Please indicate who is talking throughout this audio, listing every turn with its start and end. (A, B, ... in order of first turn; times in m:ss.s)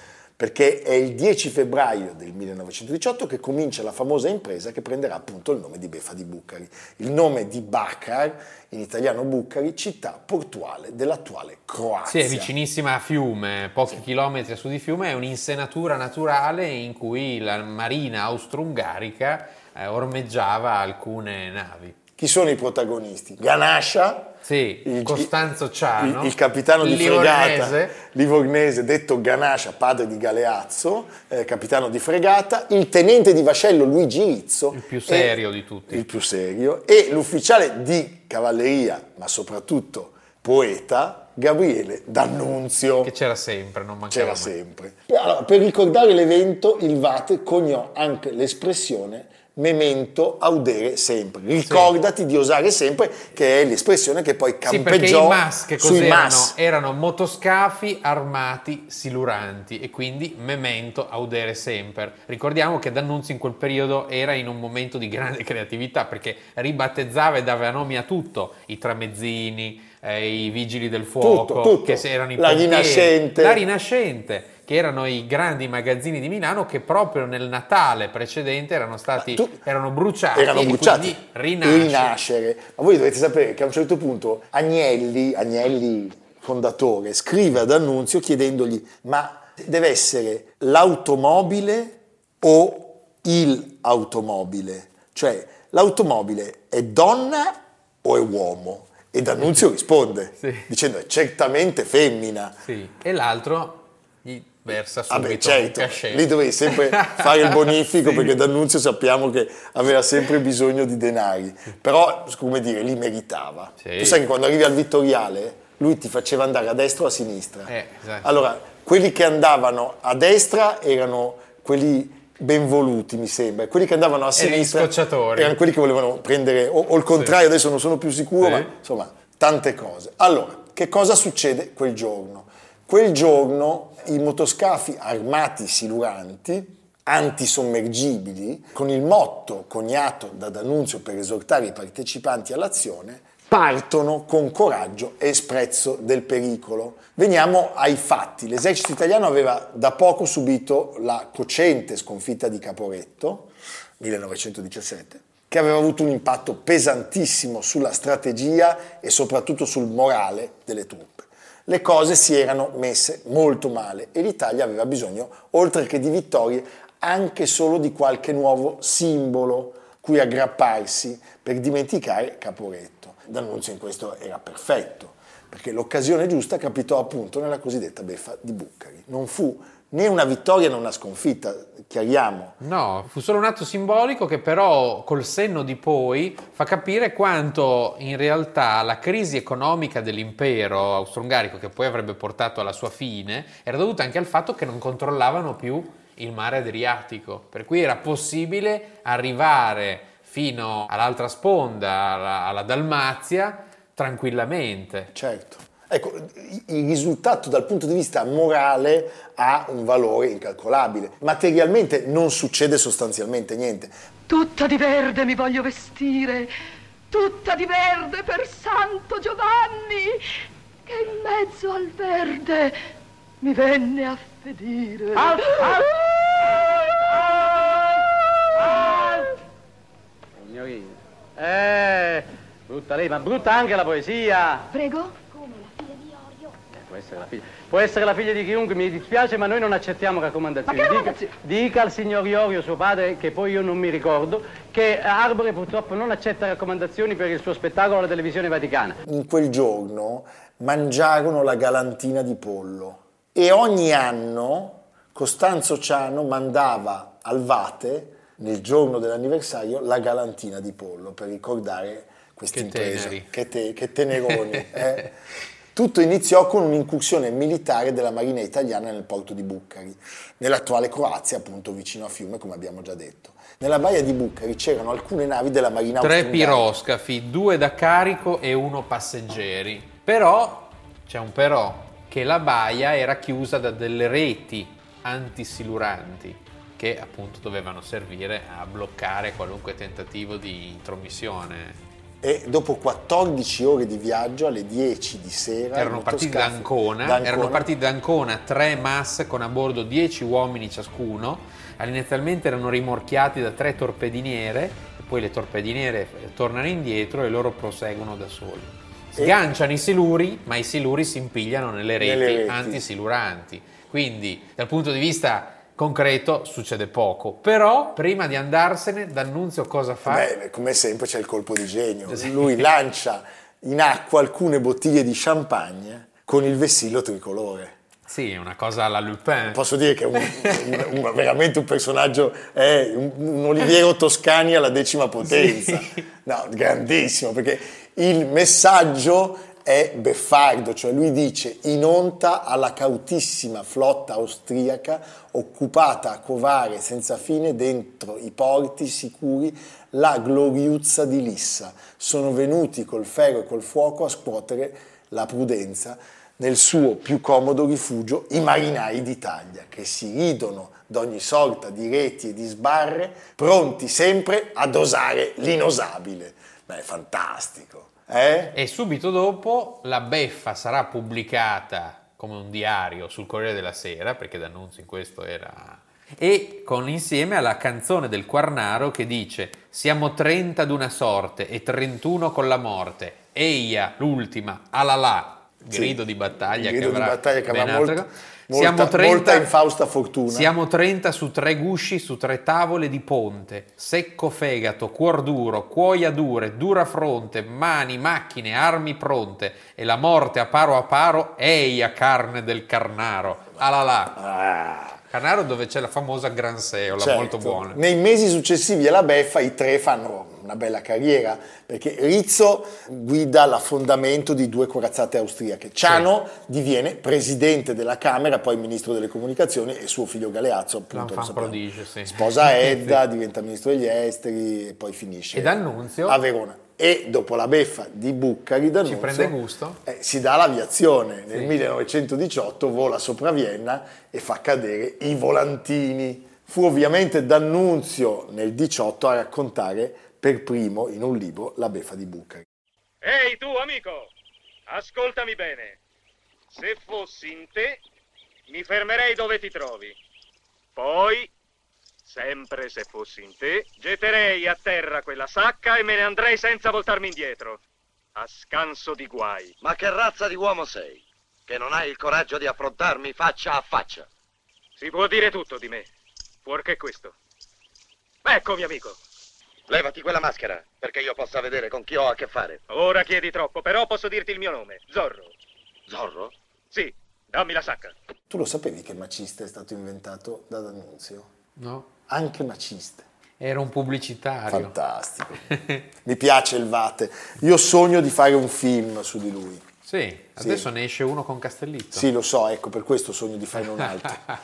0:00.4-0:12.5 A
0:12.1-0:22.0 B
0:22.2-0:25.4 A
0:24.4-0:28.0 B
0:26.0-0:35.3 A
0:34.7-0:36.0 B
0:35.9-0:43.1 A
0:43.0-0:44.5 B
0:44.1-0:56.6 A
0:51.6-0:51.9 B
0:54.7-1:22.2 B
1:11.2-1:13.6 A
1:19.2-1:19.6 A
1:20.3-1:42.6 A
1:40.4-1:40.7 B
1:42.6-1:48.4 B
1:45.1-1:57.7 A
1:53.8-1:54.2 B
1:57.7-1:58.3 B
1:58.2-3:02.6 A
2:04.4-2:05.6 B
2:08.4-2:08.7 B
3:02.6-3:25.1 B
3:25.1-3:33.9 A
3:34.3-3:36.5 C
3:37.1-3:40.2 C
3:40.9-3:42.7 C
3:43.4-3:45.8 C
3:45.2-3:48.0 D
3:48.6-3:49.3 D
3:50.4-3:54.7 D
3:54.7-3:56.5 C
3:56.8-4:09.0 D
4:00.7-4:01.3 C
4:09.1-4:25.1 A
4:22.5-4:23.3 B
4:24.4-4:24.8 B
4:25.8-4:36.8 A
4:36.0-4:51.8 B
4:52.2-4:57.7 A
4:55.8-5:20.3 B
5:12.0-5:12.8 A
5:20.1-5:27.8 A
5:22.1-5:22.6 B
5:28.1-5:29.6 B
5:29.5-6:08.6 A
5:30.2-5:30.7 B
5:35.3-5:35.7 B
6:08.6-6:29.5 B
6:25.7-6:30.5 A
6:30.3-6:44.2 B
6:44.2-6:45.0 A
6:45.1-6:47.8 B
6:47.0-7:22.5 A
7:00.9-7:03.0 B
7:05.3-7:06.2 B
7:08.8-7:09.8 B
7:23.0-7:24.1 E
7:24.7-7:25.8 E
7:26.5-7:27.8 E
7:28.5-7:30.0 E
7:30.8-7:31.3 E
7:32.1-7:37.6 E
7:38.2-7:39.6 E
7:39.6-7:44.1 F
7:44.8-7:45.9 E
7:46.4-7:47.2 E
7:48.2-7:49.0 E
7:49.7-7:52.6 F
7:52.7-7:55.3 E
7:55.9-7:56.3 F
7:56.7-7:58.0 E
7:58.3-8:01.3 A
8:01.6-8:01.9 B
8:02.1-8:03.1 A
8:03.4-8:04.7 B
8:04.5-8:05.5 A
8:05.5-8:05.8 B
8:06.0-8:09.6 A
8:09.8-8:12.1 B
8:10.4-8:10.7 A
8:11.9-8:14.2 A